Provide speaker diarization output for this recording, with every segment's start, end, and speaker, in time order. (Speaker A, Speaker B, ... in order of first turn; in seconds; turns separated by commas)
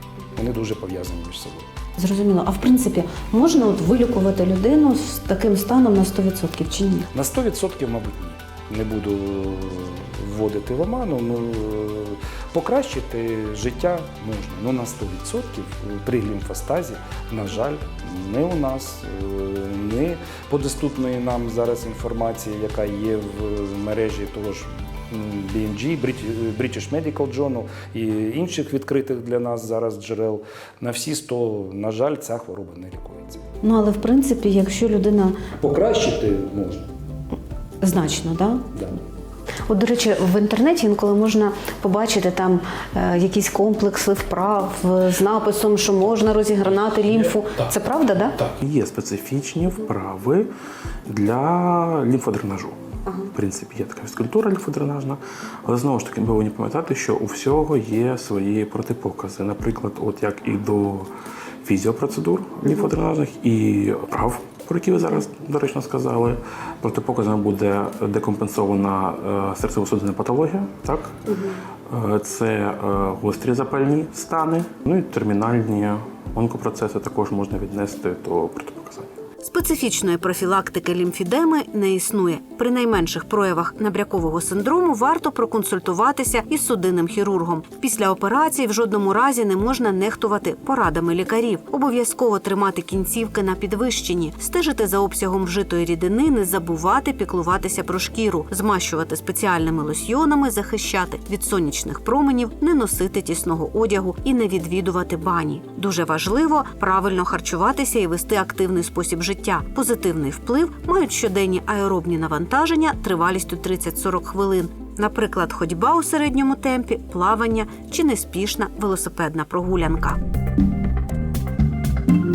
Speaker A: 0.3-1.7, Speaker B: 2.0-7.1, Speaker A: 7.1-33.4, Speaker B: 33.6-35.4, Speaker A: 35.6-36.8, Speaker B: 37.8-38.6, Speaker B: 39.6-48.4, Speaker C: 48.6-50.5, Speaker C: 51.0-52.8, Speaker B: 53.0-53.3, Speaker C: 53.3-61.1, Speaker C: 61.6-71.2, Speaker B: 62.6-62.9, Speaker B: 71.3-71.6, Speaker C: 71.9-79.1, Speaker B: 79.4-120.2